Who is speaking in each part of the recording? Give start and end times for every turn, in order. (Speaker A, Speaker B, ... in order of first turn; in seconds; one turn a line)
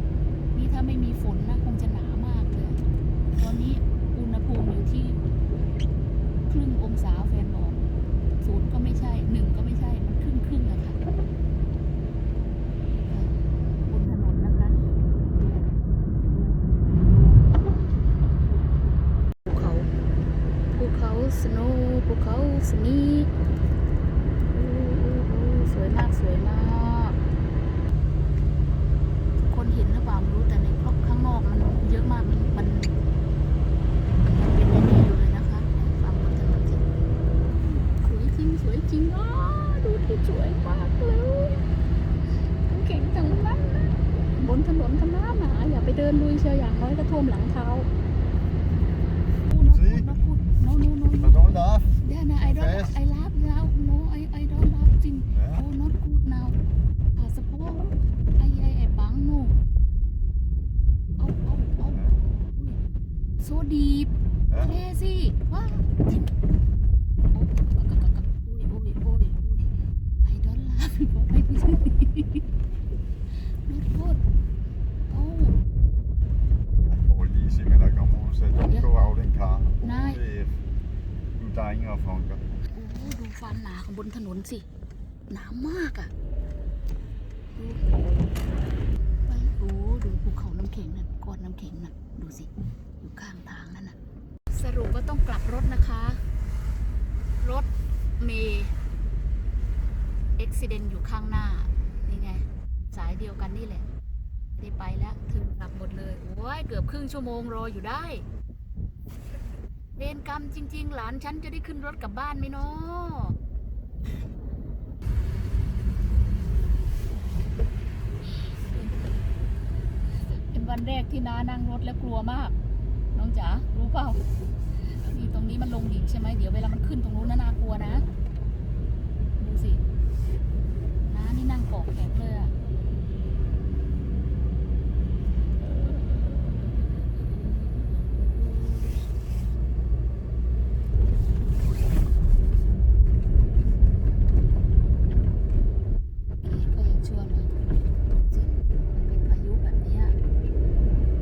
Speaker A: 0.5-2.8
Speaker A: 3.4-5.2
Speaker A: 6.5-11.0
Speaker A: 13.9-14.8
Speaker A: 15.3-17.5
Speaker A: 19.4-19.9
Speaker A: 20.7-23.3
Speaker A: 24.5-27.2
Speaker A: 29.5-32.9
Speaker A: 34.2-36.9
Speaker A: 37.7-41.6
Speaker A: 42.7-47.9
Speaker A: 49.4-51.4
Speaker B: 49.7-50.1
Speaker B: 51.2-53.0
Speaker A: 52.0-56.6
Speaker B: 55.3-55.6
Speaker A: 57.1-59.5
Speaker A: 61.2-62.8
Speaker B: 61.9-62.1
Speaker A: 63.4-66.3
Speaker B: 64.5-64.8
Speaker A: 67.3-72.4
Speaker A: 73.4-74.2
Speaker A: 75.1-75.6
Speaker B: 76.9-80.6
Speaker A: 79.8-80.2
Speaker B: 81.4-82.4
Speaker A: 82.7-84.7
Speaker A: 85.3-86.1
Speaker A: 87.5-88.3
Speaker A: 89.3-93.9
Speaker A: 94.5-96.2
Speaker A: 97.4-97.7
Speaker A: 98.2-98.7
Speaker A: 100.4-103.8
Speaker A: 104.5-108.2
Speaker A: 110.0-113.4
Speaker A: 120.5-122.5
Speaker A: 123.1-124.2
Speaker A: 124.8-128.0
Speaker A: 129.4-129.8
Speaker A: 131.1-132.5
Speaker A: 146.4-147.5
Speaker A: 148.3-150.2